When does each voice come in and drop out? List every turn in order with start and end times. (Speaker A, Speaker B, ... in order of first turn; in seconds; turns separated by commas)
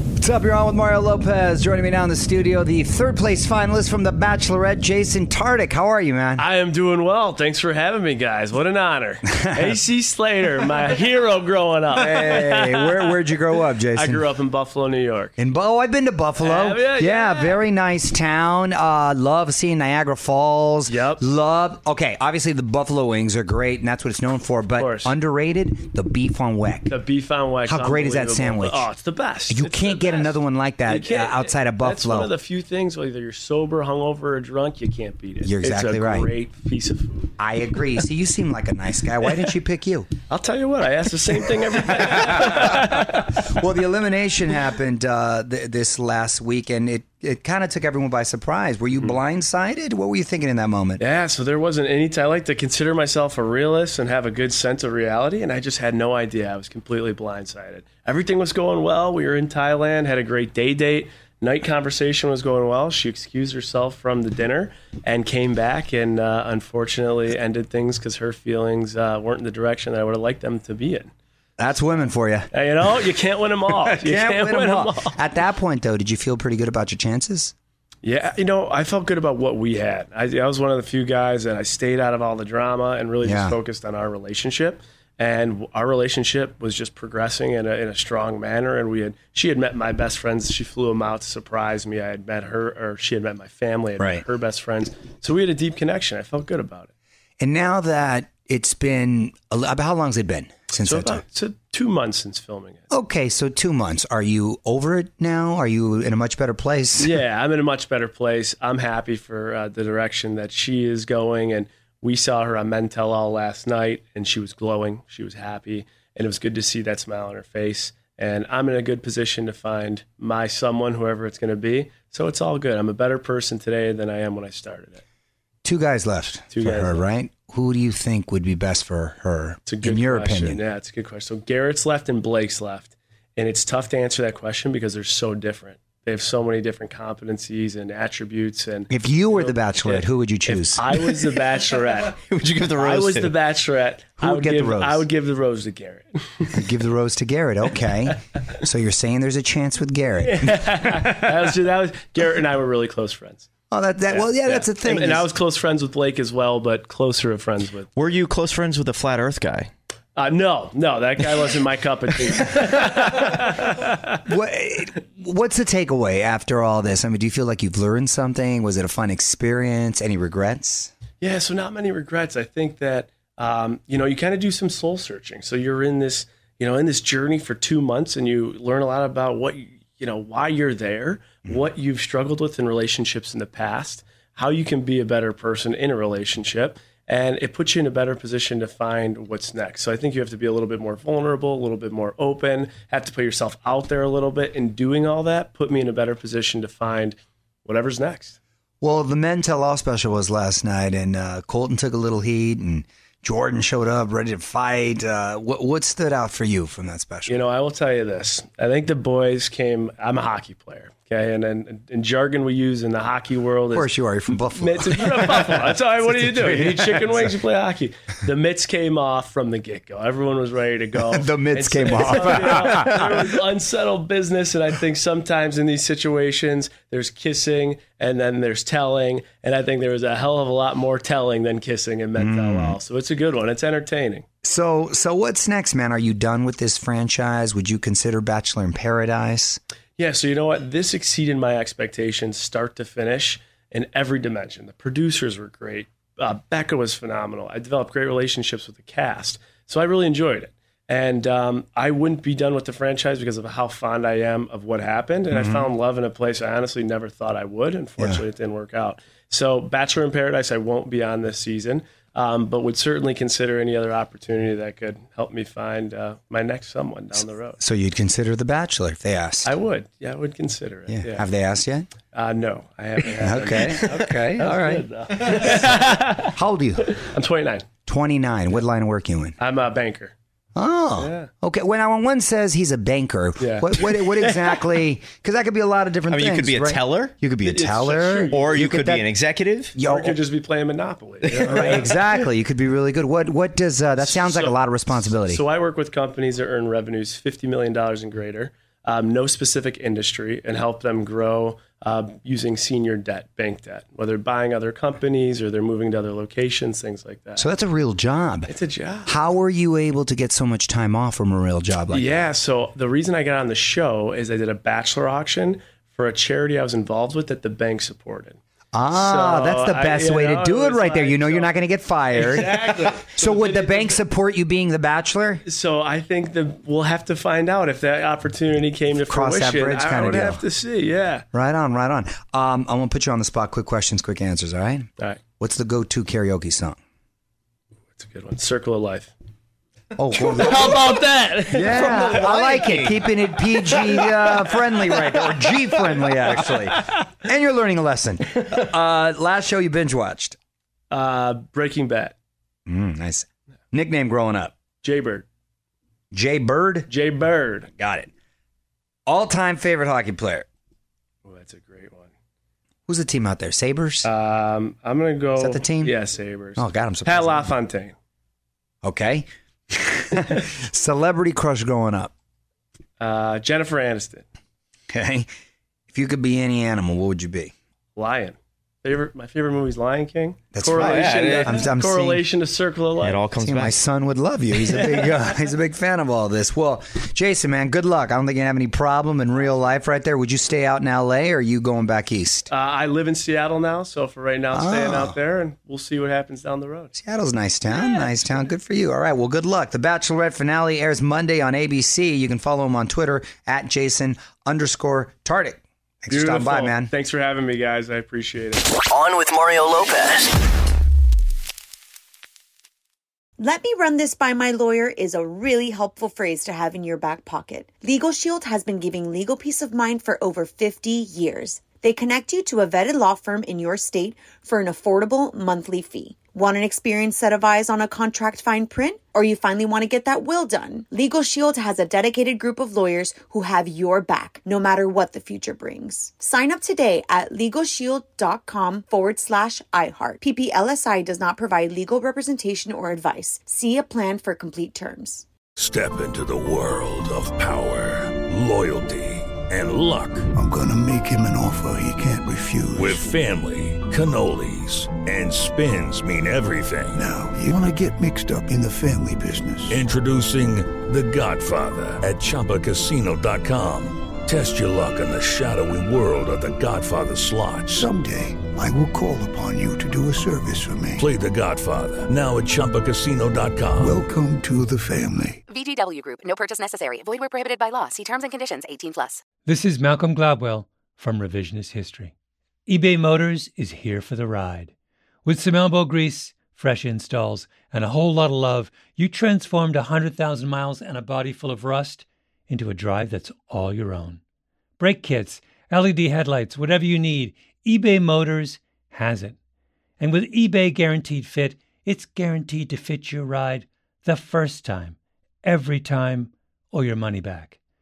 Speaker A: 0.2-6.4, Speaker B: 6.4-13.2, Speaker A: 9.4-9.7, Speaker A: 11.9-14.2, Speaker B: 13.9-15.3, Speaker A: 15.4-26.9, Speaker B: 16.4-17.6, Speaker B: 20.9-21.2, Speaker B: 24.8-25.1, Speaker B: 26.9-37.3, Speaker A: 27.6-28.9, Speaker A: 29.5-32.3, Speaker A: 35.4-36.3, Speaker A: 37.4-40.1, Speaker B: 40.3-43.4, Speaker A: 42.0-51.0, Speaker B: 51.0-71.1, Speaker A: 71.6-72.5, Speaker B: 72.5-75.1, Speaker A: 73.8-77.5, Speaker B: 78.0-96.9, Speaker A: 83.2-83.6, Speaker A: 94.0-94.2, Speaker A: 97.4-101.2, Speaker B: 100.8-102.8, Speaker A: 102.9-107.2, Speaker B: 107.0-125.0, Speaker A: 125.6-130.6, Speaker B: 126.5-127.0, Speaker B: 129.7-146.5, Speaker A: 138.9-140.9, Speaker C: 142.2-143.4, Speaker A: 144.2-145.0, Speaker A: 146.5-150.5, Speaker B: 150.2-153.5, Speaker A: 153.7-155.2, Speaker B: 154.1-157.9, Speaker C: 157.9-159.7, Speaker B: 160.2-164.2, Speaker A: 164.2-170.9, Speaker B: 171.2-198.4, Speaker A: 198.8-207.3, Speaker B: 207.3-213.9, Speaker A: 213.7-217.3, Speaker B: 214.5-234.2, Speaker A: 221.1-223.2, Speaker A: 232.2-232.8, Speaker A: 234.4-239.6, Speaker B: 240.0-267.6, Speaker A: 255.3-255.7, Speaker A: 267.6-269.5, Speaker B: 269.4-271.3, Speaker A: 270.9-271.9, Speaker B: 272.1-276.3, Speaker A: 273.2-274.8, Speaker A: 276.2-276.9, Speaker B: 276.8-277.6, Speaker A: 277.9-279.4, Speaker B: 279.4-280.1, Speaker A: 280.6-289.1, Speaker B: 281.0-281.3, Speaker B: 283.4-284.5, Speaker C: 286.1-287.2, Speaker B: 287.4-288.5, Speaker C: 288.3-289.8, Speaker A: 289.8-290.1, Speaker B: 289.8-292.0, Speaker A: 291.4-295.4, Speaker B: 294.0-307.5, Speaker A: 307.4-308.5, Speaker B: 308.5-309.1, Speaker A: 309.0-312.1, Speaker B: 311.9-318.4, Speaker A: 318.7-325.4, Speaker B: 318.9-321.5, Speaker B: 322.1-324.0, Speaker B: 325.4-331.2, Speaker A: 329.1-330.4, Speaker A: 331.3-334.9, Speaker A: 335.4-336.8, Speaker B: 337.9-339.1, Speaker A: 340.0-340.8, Speaker B: 340.1-343.0, Speaker A: 341.5-350.4, Speaker C: 341.8-342.6, Speaker B: 350.9-352.1, Speaker A: 352.7-354.5, Speaker B: 354.8-355.2, Speaker A: 356.1-356.9, Speaker B: 356.9-357.7, Speaker A: 357.8-358.1, Speaker A: 359.1-360.4, Speaker B: 361.2-362.1, Speaker A: 362.9-364.1, Speaker B: 364.0-367.9, Speaker A: 365.4-365.9, Speaker A: 366.6-367.5, Speaker A: 368.8-372.1, Speaker B: 373.0-374.2, Speaker A: 374.9-375.3, Speaker A: 375.9-377.5, Speaker B: 378.0-383.3, Speaker A: 380.5-382.2, Speaker C: 380.7-381.7, Speaker C: 383.0-383.8, Speaker A: 383.4-392.5, Speaker B: 384.9-385.1, Speaker B: 392.5-396.9, Speaker A: 394.5-395.1, Speaker A: 396.9-406.9, Speaker B: 406.1-408.6, Speaker D: 408.9-410.3, Speaker E: 413.4-445.2, Speaker F: 445.6-450.3, Speaker G: 450.3-453.0, Speaker F: 452.7-457.1, Speaker G: 457.0-459.8, Speaker F: 459.7-467.9, Speaker G: 467.7-471.0, Speaker F: 471.0-474.0, Speaker G: 473.8-475.4, Speaker D: 475.5-479.2, Speaker H: 479.5-482.1, Speaker H: 482.7-484.7, Speaker H: 485.2-494.2, Speaker H: 494.8-499.4, Speaker H: 500.0-507.6